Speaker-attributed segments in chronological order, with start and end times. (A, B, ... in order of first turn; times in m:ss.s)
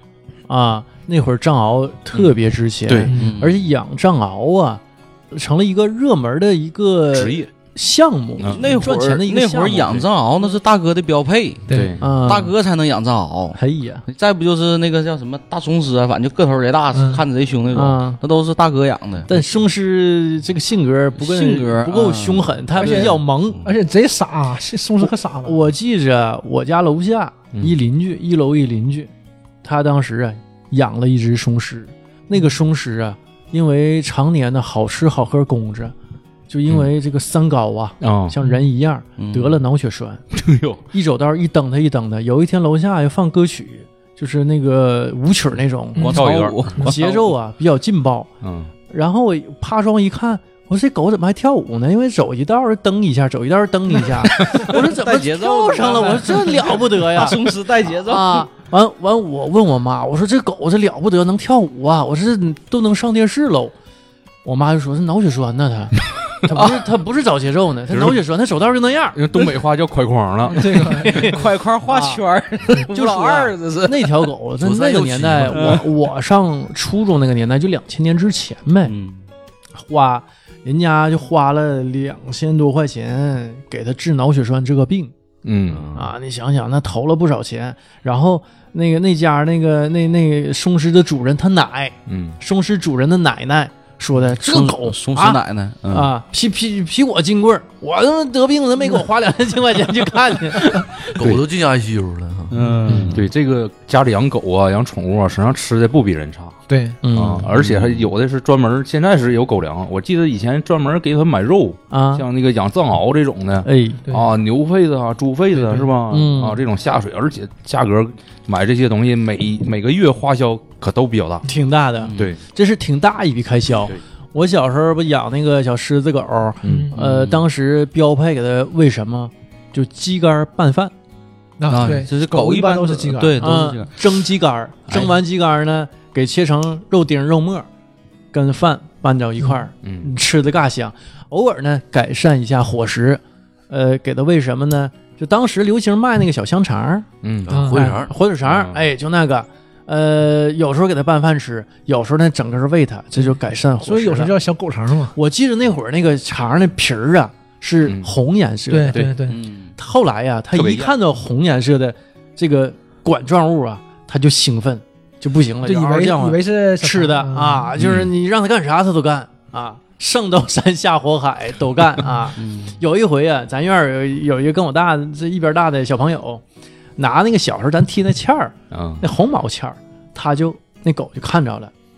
0:00.5-0:10.0 A
0:02.9-0:03.1 B
0:03.1-0:03.3 C
0:03.1-0:03.6 D
0:07.1-0:07.5 B
0:08.4-0:08.8 B
0:08.5-0:19.3 D
0:11.7-0:11.9 C
0:11.7-0:12.0 B
0:12.0-0:12.5 A
0:13.6-0:14.0 A
0:16.9-0:17.2 C
0:17.7-0:18.2 A
0:19.3-0:23.6 A
0:21.2-0:23.0 D
0:22.8-0:25.6 C
0:25.0-0:29.1 A
0:27.5-0:27.8 B
0:29.6-0:36.0 A
0:36.5-0:40.2 A
0:38.0-0:38.4 B
0:39.2-0:39.6 D
0:40.3-0:40.8 B
0:40.9-0:46.2 A
0:46.0-0:46.2 C
0:46.0-0:47.3 D
0:46.1-0:46.7 B
0:46.8-0:48.3 A
0:48.4-0:48.7 B
0:48.9-1:03.7 A
0:54.4-0:58.5 D
1:04.4-1:09.5 A
1:07.9-1:08.2 B
1:09.2-1:11.0 B
1:10.5-1:11.4 C
1:10.6-1:12.2 A
1:11.1-1:14.3 D
1:12.9-1:18.9 A
1:14.6-1:15.8 E
1:18.8-1:19.2 D
1:19.8-1:25.1 A
1:25.4-1:25.9 B
1:25.7-1:26.1 E
1:25.9-1:40.8 A
1:32.1-1:32.4 B
1:34.4-1:36.1 D
1:41.2-1:42.6 E
1:42.5-1:43.3 D
1:42.8-1:43.2 A
1:43.1-1:46.6 B
1:46.7-1:47.0 C
1:47.0-1:47.5 A
1:47.1-2:01.5 B
1:47.6-1:48.1 E
1:51.9-1:52.2 A
1:53.6-1:54.0 A
1:55.5-1:55.9 C
1:56.1-1:56.6 A
2:01.5-2:10.9 A
2:02.0-2:02.4 D
2:02.2-2:02.4 B
2:06.6-2:06.9 B
2:06.6-2:06.9 C
2:07.0-2:07.4 D
2:11.6-2:13.4 C
2:11.7-2:13.9 D
2:13.4-2:17.7 A
2:18.3-2:27.1 A
2:19.8-2:20.1 B
2:27.2-2:27.6 B
2:27.5-2:28.2 E
2:27.5-2:27.8 C
2:27.7-2:34.3 A
2:28.4-2:28.8 B
2:33.2-2:35.2 C
2:35.2-2:39.1 A
2:37.8-2:38.1 B
2:38.7-2:39.4 C
2:39.3-2:39.7 D
2:39.8-2:56.4 A
2:40.5-2:40.9 B
2:45.6-2:47.7 C
2:47.8-2:48.1 B
2:52.4-2:52.8 D
2:57.0-3:01.7 A
2:58.7-2:59.0 B